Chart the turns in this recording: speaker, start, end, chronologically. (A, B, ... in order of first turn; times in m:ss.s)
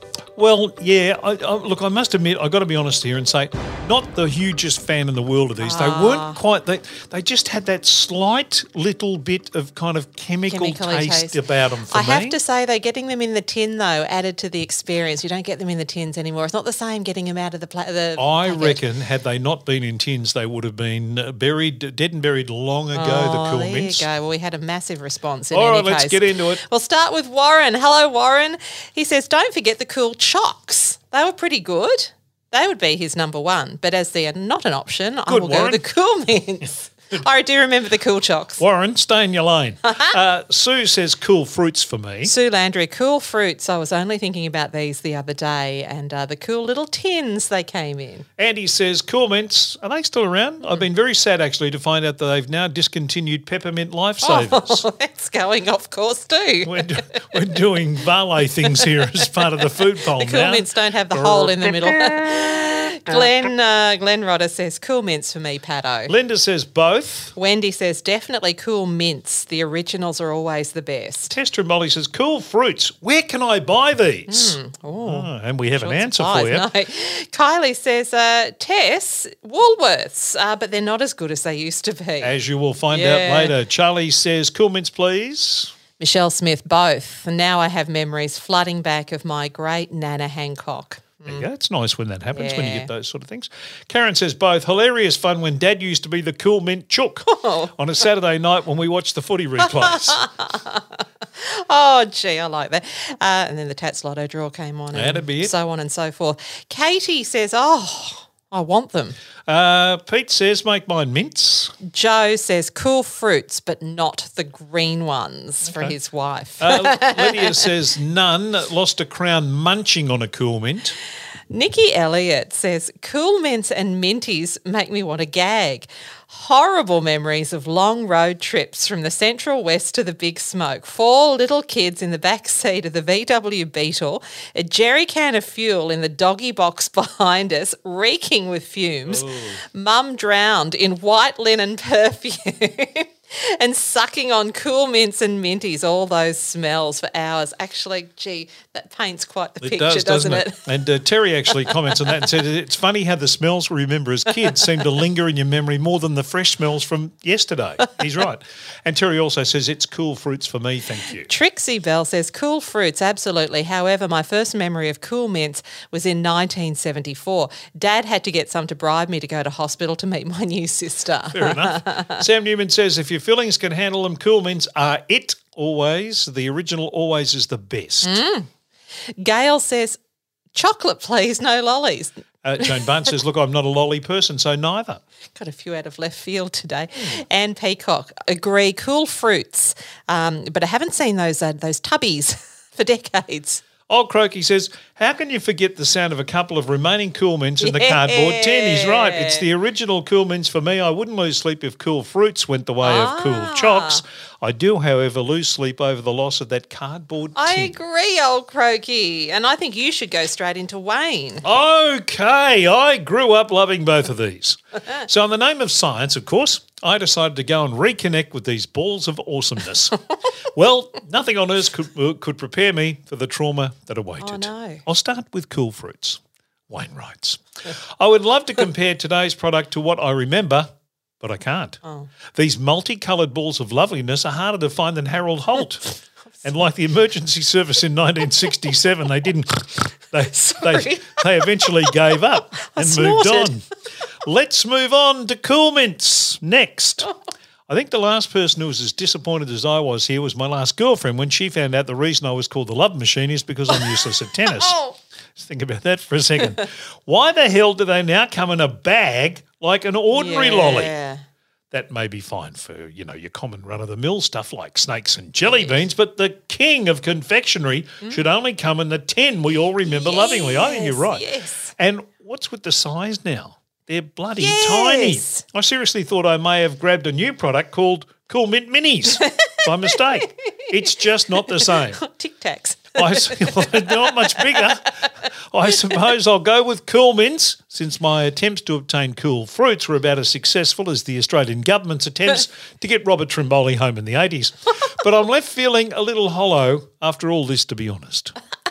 0:00.4-0:12.4 A
0:05.6-0:06.4 B
0:10.5-0:11.4 B
0:11.9-0:18.8 B
0:18.2-0:24.0 A
0:22.9-0:38.6 B
0:25.5-0:26.6 A
0:35.3-0:35.8 A
0:38.6-0:42.3 A
0:42.2-0:48.2 B
0:48.4-0:54.8 A
0:54.2-0:57.4 B
0:56.6-1:02.0 A
1:00.1-1:06.1 B
1:06.1-1:07.3 A
1:07.3-1:11.3 B
1:11.3-1:16.6 A
1:14.3-1:15.3 B
1:15.8-1:22.3 B
1:22.2-1:25.7 A
1:22.9-1:23.5 B
1:26.0-1:31.4 B
1:31.2-1:40.2 A
1:32.3-1:32.9 B
1:37.3-1:37.7 B
1:39.8-1:49.2 B
1:44.9-1:45.5 A
1:49.5-1:51.7 A
1:51.8-1:57.5 B
1:55.7-1:55.9 A
1:56.6-2:01.0 A
2:01.5-2:30.6 B
2:19.0-2:19.6 A
2:29.6-2:41.3 A
2:41.3-2:52.2 B
2:51.3-2:58.2 A
2:58.0-2:58.5 B
2:59.2-3:00.0 B
3:00.5-3:02.8 B
3:02.4-3:05.0 A
3:05.4-3:13.6 B
3:13.9-3:27.7 A
3:17.6-3:19.4 B
3:22.8-3:24.0 B
3:27.4-3:31.4 B
3:31.4-3:40.0 A
3:40.5-3:50.7 A
3:44.2-3:44.8 B
3:51.2-3:51.8 A
3:52.3-4:03.7 A
4:00.4-4:01.7 B
4:02.6-4:03.5 B
4:04.2-4:07.1 A
4:07.7-4:14.8 A
4:14.6-4:14.9 B
4:15.4-4:20.9 A
4:20.1-4:21.2 B
4:21.7-4:42.0 A
4:29.8-4:31.7 B
4:34.4-4:35.4 B
4:41.6-4:44.6 B
4:43.0-4:58.4 A